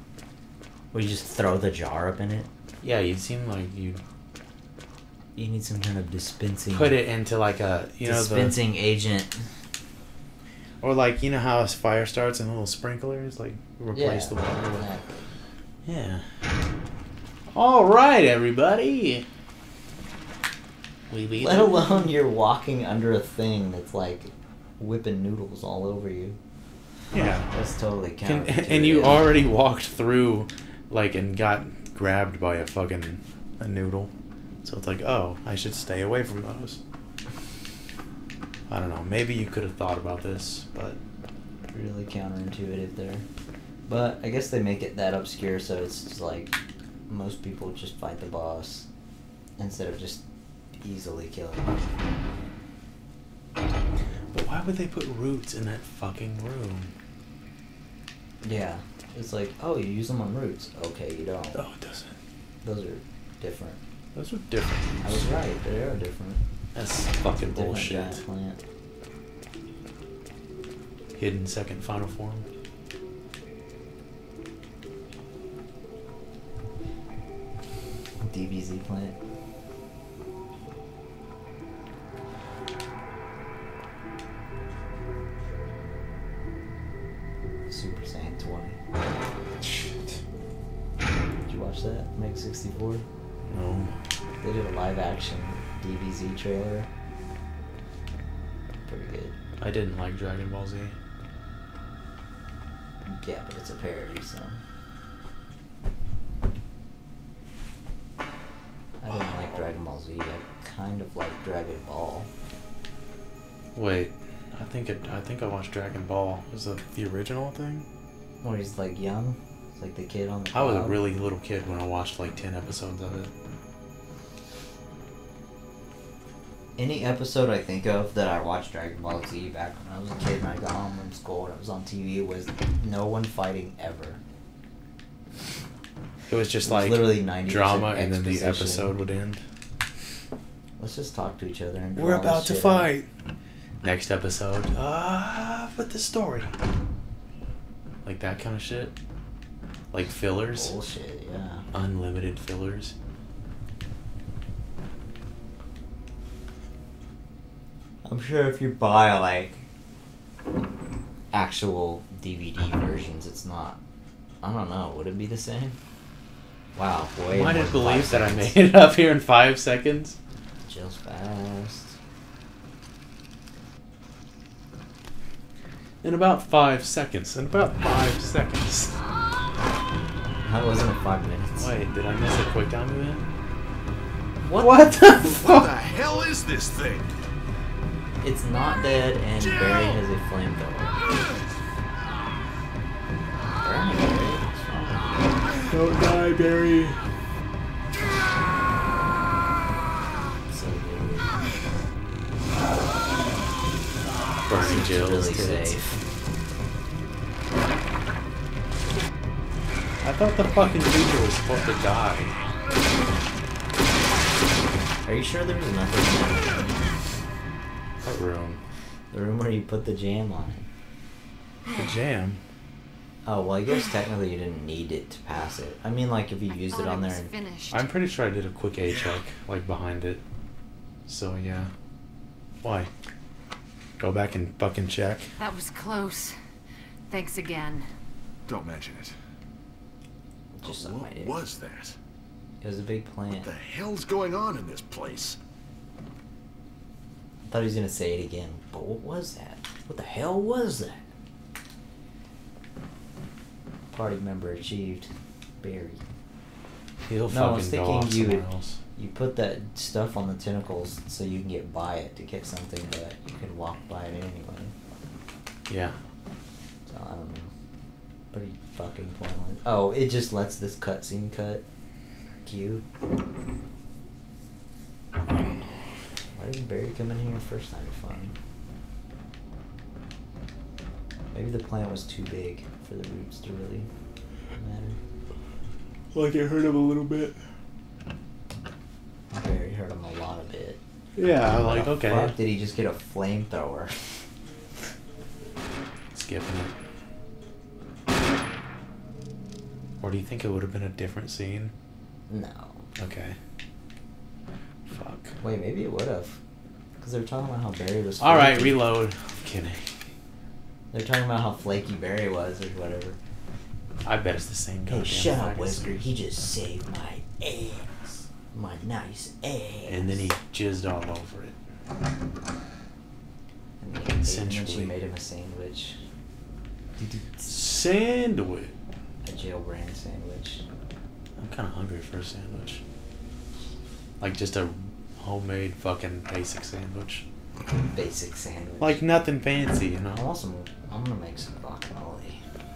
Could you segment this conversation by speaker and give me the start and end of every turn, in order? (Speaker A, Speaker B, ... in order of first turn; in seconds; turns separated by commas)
Speaker A: 0.9-2.5, Speaker B: 2.8-4.0, Speaker A: 5.3-7.0, Speaker B: 6.7-8.6, Speaker A: 8.0-9.5, Speaker B: 10.8-14.9, Speaker A: 13.9-15.1, Speaker B: 15.8-16.4, Speaker B: 17.5-19.2, Speaker B: 21.1-22.1, Speaker A: 21.3-26.4, Speaker A: 27.1-29.3, Speaker B: 27.1-27.5, Speaker B: 28.2-34.1, Speaker B: 34.6-36.8, Speaker B: 38.7-41.0, Speaker A: 41.7-43.2, Speaker A: 43.9-46.5, Speaker A: 47.1-48.9, Speaker A: 49.6-50.2, Speaker A: 50.8-51.9, Speaker B: 54.3-56.9, Speaker A: 58.4-61.6, Speaker B: 61.5-62.1, Speaker A: 62.6-63.8, Speaker B: 64.1-65.3, Speaker A: 65.0-66.4, Speaker B: 66.7-68.2, Speaker A: 67.4-68.6, Speaker B: 71.2-72.5, Speaker A: 78.2-79.2, Speaker A: 87.7-88.8, Speaker B: 89.6-90.2, Speaker A: 91.5-93.0, Speaker B: 93.5-93.9, Speaker A: 94.4-96.9, Speaker A: 98.8-99.3, Speaker B: 99.6-101.0, Speaker A: 103.0-104.6, Speaker A: 109.0-112.3, Speaker B: 109.1-109.7, Speaker B: 113.7-117.9, Speaker A: 118.4-121.0, Speaker B: 120.5-123.3, Speaker A: 126.8-134.2, Speaker B: 136.3-139.4, Speaker A: 136.6-138.9, Speaker A: 140.8-142.9, Speaker B: 141.9-143.1, Speaker B: 143.8-146.6, Speaker B: 148.0-148.9, Speaker B: 149.9-150.7, Speaker A: 150.5-151.7, Speaker B: 151.7-152.9, Speaker A: 158.0-159.6, Speaker A: 161.3-163.8, Speaker A: 164.4-165.8, Speaker A: 166.8-168.6, Speaker B: 167.3-170.2, Speaker A: 170.6-172.0, Speaker B: 176.0-179.0, Speaker A: 180.4-181.7, Speaker B: 181.6-183.3, Speaker A: 184.4-184.7, Speaker B: 184.5-185.7, Speaker C: 185.2-187.1, Speaker A: 188.2-191.0, Speaker A: 193.6-195.4, Speaker B: 195.7-197.0, Speaker A: 200.5-201.3, Speaker B: 204.4-206.0, Speaker A: 204.5-206.0, Speaker B: 210.0-212.4, Speaker A: 215.0-216.8, Speaker B: 218.0-218.6, Speaker A: 219.1-220.7, Speaker B: 221.7-222.4, Speaker A: 223.2-227.3, Speaker D: 226.5-227.8, Speaker B: 227.7-230.2, Speaker B: 231.1-231.7, Speaker B: 232.6-232.9, Speaker B: 234.0-235.3, Speaker D: 235.4-236.3, Speaker D: 237.1-237.9, Speaker C: 238.5-239.1, Speaker A: 240.5-241.4, Speaker C: 240.6-241.9, Speaker A: 242.6-243.5, Speaker C: 243.4-245.4, Speaker A: 247.5-251.0, Speaker A: 253.9-256.0, Speaker B: 257.0-258.8, Speaker A: 257.3-264.7, Speaker B: 265.7-266.0, Speaker A: 266.9-267.5, Speaker A: 268.3-271.6, Speaker A: 272.4-272.8, Speaker A: 276.3-278.3, Speaker A: 281.3-283.9, Speaker A: 284.6-285.0, Speaker B: 286.1-287.4, Speaker A: 289.3-290.8, Speaker B: 291.1-292.4, Speaker A: 291.4-294.2, Speaker B: 296.1-296.7, Speaker B: 300.0-301.7, Speaker A: 302.3-302.9, Speaker B: 303.0-303.4, Speaker B: 304.9-305.4, Speaker A: 305.4-306.4, Speaker A: 307.0-308.8, Speaker B: 308.2-310.0, Speaker A: 310.9-313.2, Speaker B: 314.0-316.0, Speaker A: 314.9-318.0, Speaker A: 318.5-320.3, Speaker B: 319.9-321.6, Speaker A: 323.8-326.0, Speaker B: 324.1-324.9, Speaker A: 327.0-327.5, Speaker B: 327.4-328.8, Speaker A: 329.2-330.6, Speaker B: 331.4-332.8, Speaker B: 334.2-337.2, Speaker A: 337.9-339.0, Speaker B: 338.8-340.2, Speaker A: 340.1-342.4